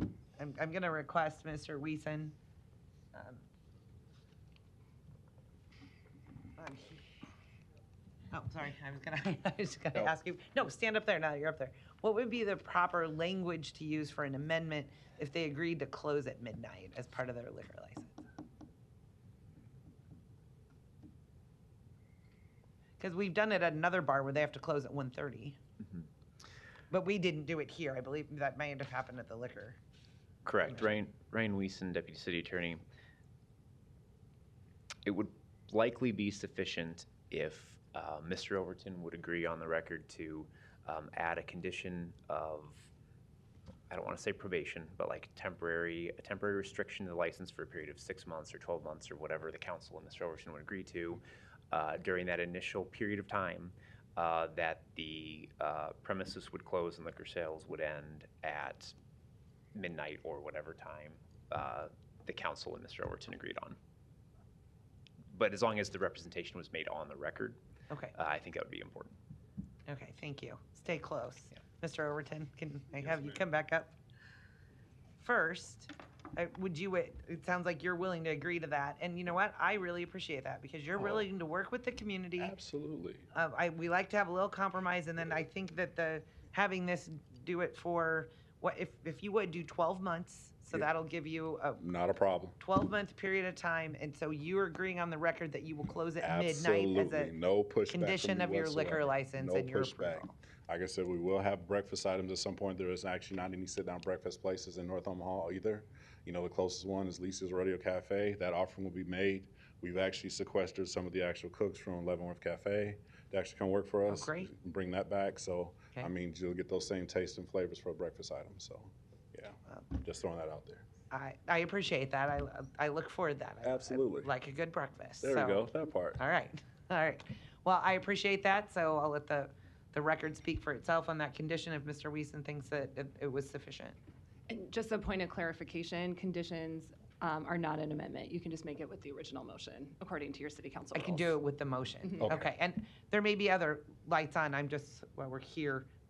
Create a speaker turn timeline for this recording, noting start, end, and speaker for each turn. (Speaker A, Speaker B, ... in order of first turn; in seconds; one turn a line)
Speaker A: 0.4-2.3
Speaker A: 3.1-3.4
Speaker A: 6.6-7.0
Speaker A: 8.3-18.2
Speaker A: 23.0-25.6
Speaker A: 26.9-29.8
Speaker B: 30.4-32.8
Speaker A: 30.7-31.0
Speaker B: 35.0-42.9
Speaker B: 43.9-58.9
Speaker B: 59.7-63.8
Speaker B: 65.3-67.6
Speaker B: 68.1-69.2
Speaker A: 69.8-73.9
Speaker A: 75.2-82.5
Speaker C: 81.0-81.2
Speaker C: 82.4-83.2
Speaker A: 83.3-91.8
Speaker C: 91.8-92.6
Speaker A: 92.6-97.3
Speaker C: 96.2-120.8
Speaker A: 97.9-100.3
Speaker A: 114.1-114.5
Speaker A: 121.1-134.0
Speaker C: 123.6-124.3
Speaker C: 125.2-126.2
Speaker D: 134.5-141.4
Speaker A: 140.9-145.9